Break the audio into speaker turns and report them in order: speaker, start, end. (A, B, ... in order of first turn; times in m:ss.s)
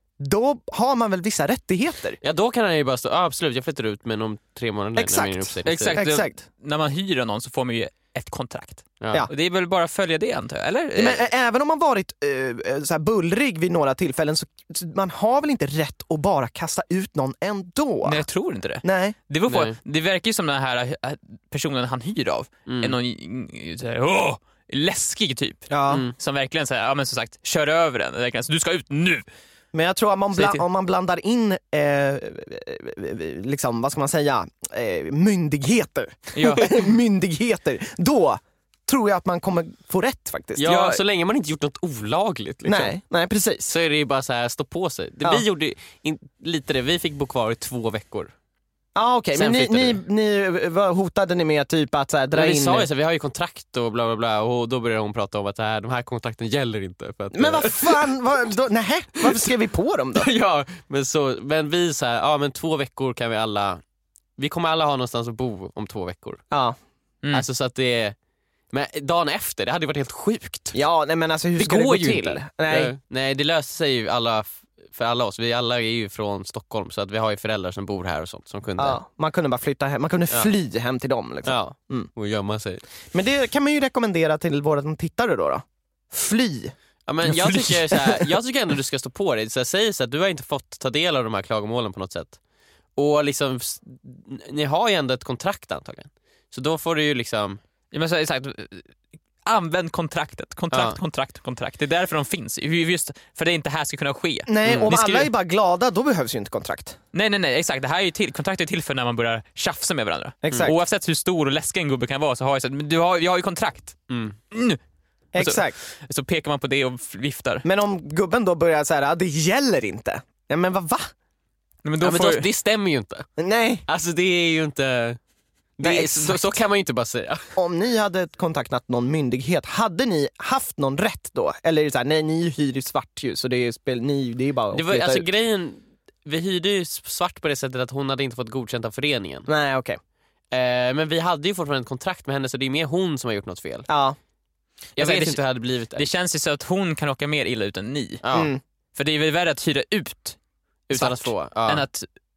0:00.2-0:02.2 A
0:02.2-0:06.0 B
0:05.0-0:06.4 A
0:05.7-0:11.2 C
0:09.0-0:09.3 B
0:11.0-0:18.3 A
0:18.0-0:29.2 C
0:18.8-0:19.2 A
0:19.5-0:19.8 B
0:22.7-0:23.0 B
0:25.7-0:26.0 A
0:29.7-0:40.7 A
0:30.3-0:30.6 C
0:36.3-0:36.7 C
0:40.6-0:42.9 B
0:40.6-0:41.0 C
0:42.6-0:43.7 A
0:43.7-0:48.3 B
0:49.0-0:52.9 A
0:49.3-0:50.0 B
0:52.3-0:58.1 B
0:57.3-1:00.3 A
0:59.2-0:59.5 B
1:00.2-1:03.8 B
1:04.4-1:06.4 B
1:06.5-1:06.8 A
1:07.3-1:08.2 B
1:08.7-1:10.8 B
1:10.7-1:12.9 A
1:11.6-1:19.0 B
1:18.8-1:22.1 A
1:21.4-1:22.8 B
1:23.1-1:26.8 A
1:27.1-1:32.4 B
1:27.3-1:28.2 C
1:33.0-1:37.6 B
1:37.9-1:38.9 C
1:39.4-1:45.3 C
1:40.7-1:41.0 B
1:44.5-1:47.0 A
1:44.7-1:44.9 B
1:47.1-1:54.8 C
1:50.4-1:50.8 A
1:50.5-1:50.7 B
1:54.1-1:54.4 B
1:55.3-1:55.8 A
1:55.4-1:57.6 C
1:57.6-2:01.1 A
2:01.8-2:02.5 C
2:02.0-2:03.3 B
2:03.4-2:03.8 A
2:03.9-2:05.2 B
2:05.8-2:07.4 B
2:05.8-2:06.6 A
2:07.6-2:15.3 A
2:14.7-2:19.5 B
2:19.5-2:20.0 A
2:20.5-2:23.9 B
2:23.9-2:24.2 A
2:25.0-2:25.4 C
2:25.0-2:26.1 B
2:25.9-2:28.2 C
2:28.2-2:28.5 B
2:28.3-2:28.6 A
2:28.9-2:30.4 C
2:30.9-2:31.8 B
2:30.9-2:32.1 C